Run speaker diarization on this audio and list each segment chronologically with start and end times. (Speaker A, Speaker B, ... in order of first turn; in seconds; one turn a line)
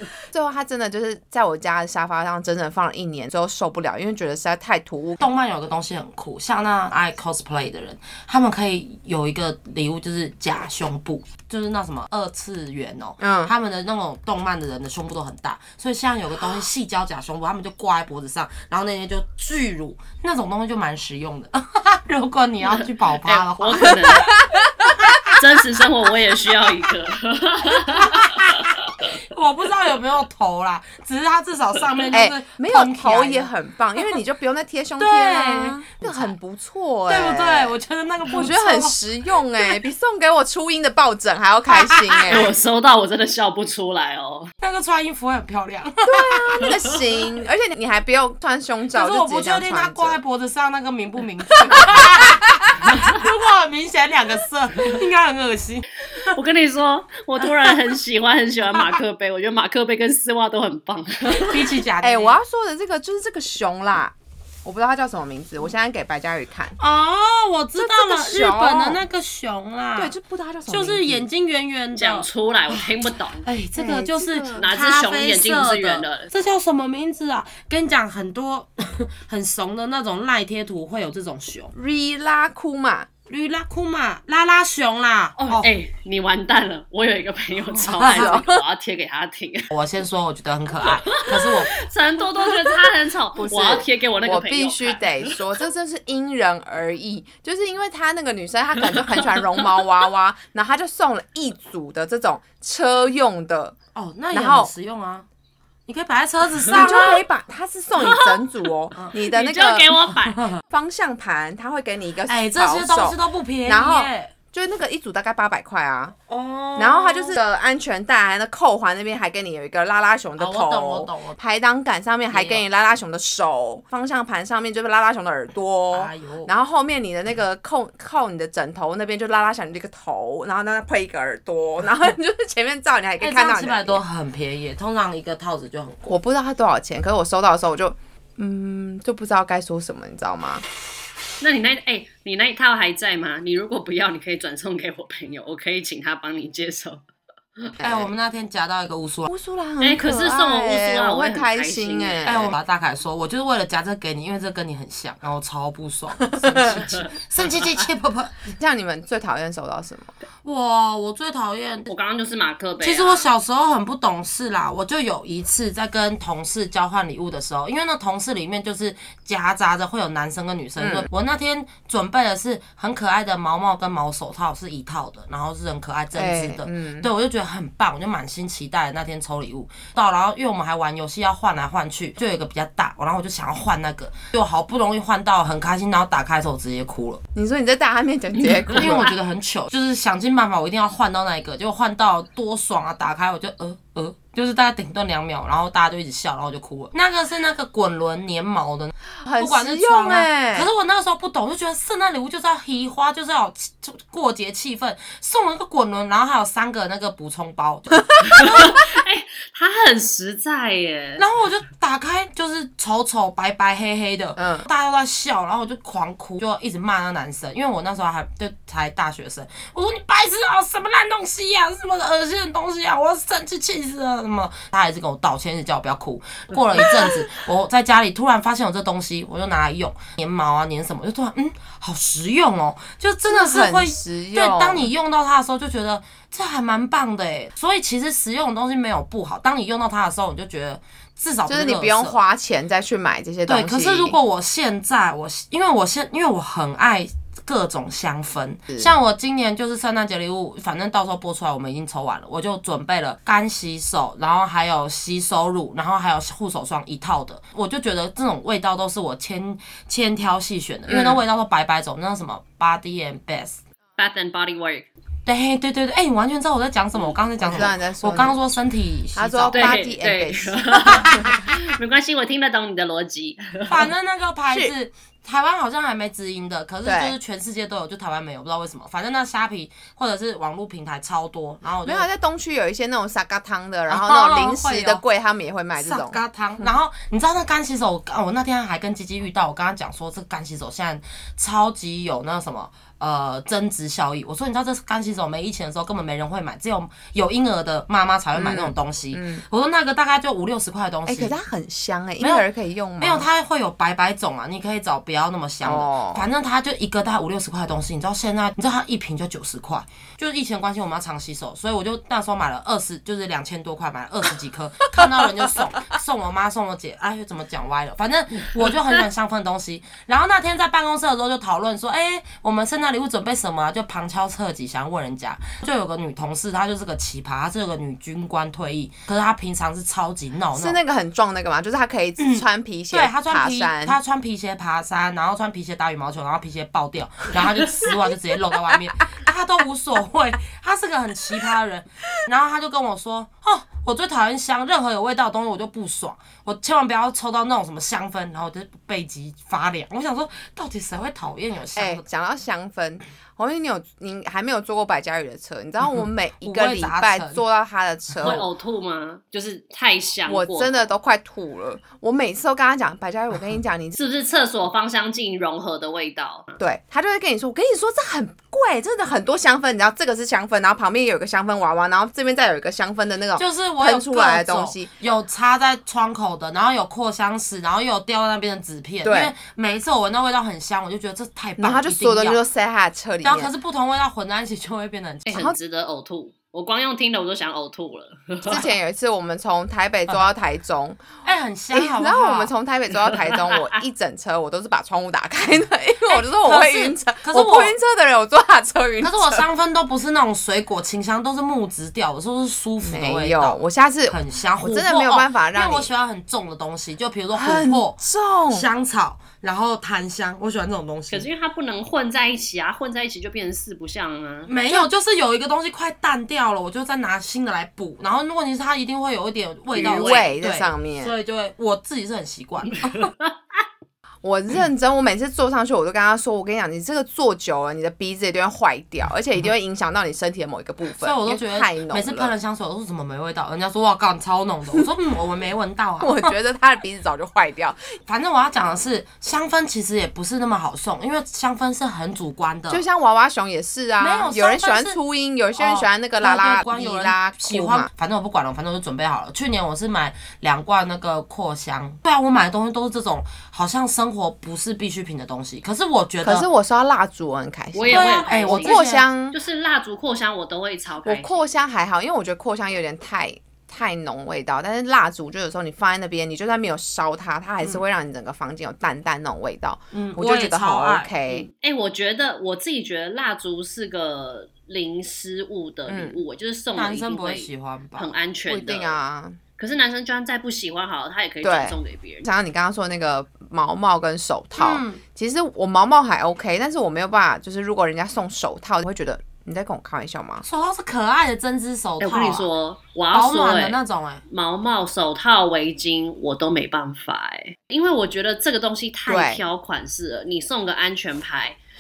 Speaker A: 0.3-5.3
Speaker B: 5.2-24.3
Speaker A: 13.2-13.5
Speaker C: 22.7-24.4
Speaker A: 24.0-24.9
Speaker B: 25.1-25.3
Speaker C: 25.3-29.1
Speaker B: 27.9-33.5
Speaker A: 32.1-42.5
Speaker B: 35.0-36.3
Speaker B: 37.1-39.0
Speaker B: 41.7-42.4
Speaker C: 42.3-44.5
Speaker B: 44.6-46.8
Speaker A: 46.0-50.2
Speaker B: 48.9-56.4
Speaker A: 51.6-52.3
Speaker C: 52.8-53.1
Speaker C: 56.2-61.7
Speaker B: 58.7-59.0
Speaker B: 61.3-62.4
Speaker A: 62.0-66.8
Speaker B: 66.8-70.2
Speaker A: 67.8-69.0
Speaker A: 70.0-71.3
Speaker B: 70.7-81.7
Speaker C: 72.0-73.5
Speaker A: 73.8-74.7
Speaker C: 74.6-76.3
Speaker A: 81.7-83.1
Speaker B: 83.3-85.7
Speaker C: 85.4-89.7
Speaker B: 87.8-88.4
Speaker A: 88.0-88.6
Speaker B: 89.7-91.8
Speaker C: 90.8-95.4
Speaker A: 93.3-103.8
Speaker C: 98.9-99.4
Speaker B: 104.0-105.3
Speaker A: 104.3-104.7
Speaker B: 105.9-107.2
Speaker A: 106.7-110.1
Speaker C: 108.0-108.5
Speaker C: 109.2-110.4
Speaker A: 110.7-116.2
Speaker B: 112.3-114.3
Speaker B: 116.3-117.4
Speaker A: 116.8-134.0
Speaker B: 120.4-121.4
Speaker B: 122.3-122.7
Speaker B: 125.9-126.5
Speaker B: 133.2-136.2
Speaker A: 136.1-140.7
Speaker C: 141.4-147.0
Speaker A: 147.8-148.1
Speaker B: 147.8-149.3
Speaker A: 149.3-152.5
Speaker C: 149.8-152.3
Speaker B: 152.2-158.6
Speaker A: 156.5-156.8
Speaker A: 158.6-160.1
Speaker B: 160.4-161.9
Speaker C: 161.9-163.3
Speaker B: 162.8-187.2
Speaker A: 170.8-171.1
Speaker A: 176.1-177.1
Speaker A: 187.3-189.2
Speaker C: 188.6-189.1
Speaker B: 188.7-208.8
Speaker A: 199.2-200.7
Speaker C: 208.2-211.2
Speaker B: 211.2-242.2
Speaker A: 214.4-214.7
Speaker A: 233.3-234.9
Speaker A: 241.5-244.2
Speaker B: 243.5-263.6
Speaker A: 260.9-261.2
Speaker C: 264.0-264.9
Speaker B: 265.3-269.8
Speaker A: 267.4-268.4
Speaker A: 269.1-271.3
Speaker C: 269.5-273.9
Speaker B: 270.9-271.3
Speaker B: 273.7-282.1
Speaker A: 276.8-277.2
Speaker A: 281.8-286.7
Speaker B: 283.9-285.0
Speaker B: 285.8-301.4
Speaker A: 298.4-299.4
Speaker A: 301.1-303.3
Speaker B: 302.2-302.4
Speaker B: 303.0-330.8
Speaker A: 305.6-306.3
Speaker A: 330.5-334.0
Speaker B: 332.2-352.0
Speaker A: 351.7-358.4
Speaker B: 355.9-357.4
Speaker C: 358.2-360.9
Speaker A: 360.3-364.0
Speaker C: 364.0-366.6
Speaker A: 366.6-374.9
Speaker B: 373.4-382.4
Speaker A: 379.0-379.3
Speaker A: 381.6-383.5
Speaker B: 383.2-385.4
Speaker C: 385.3-388.7
Speaker A: 388.4-391.0
Speaker B: 391.2-392.5
Speaker A: 391.7-399.5
Speaker C: 393.1-393.8
Speaker B: 396.1-397.8
Speaker B: 399.0-403.6
Speaker A: 402.8-405.9
Speaker B: 404.1-411.3
Speaker A: 407.3-408.7
Speaker C: 411.1-414.5
Speaker B: 414.5-423.1
Speaker C: 419.8-420.3
Speaker A: 419.8-421.1
Speaker C: 422.7-423.6
Speaker A: 424.2-432.3
Speaker B: 431.0-436.3
Speaker A: 436.0-437.9
Speaker B: 438.1-442.8
Speaker A: 442.7-447.9
Speaker B: 444.0-445.0
Speaker B: 445.6-456.5
Speaker A: 456.2-459.4
Speaker C: 457.7-461.4
Speaker B: 457.9-459.1
Speaker A: 461.1-471.5
Speaker B: 469.9-471.1
Speaker C: 471.3-479.0
Speaker A: 475.9-476.2
Speaker B: 476.8-478.1
Speaker A: 478.5-479.4
Speaker C: 479.6-482.3
Speaker A: 481.4-490.4
Speaker B: 484.6-485.0
Speaker B: 490.4-492.5
Speaker C: 492.0-501.6
Speaker B: 493.1-494.2
Speaker A: 499.1-499.4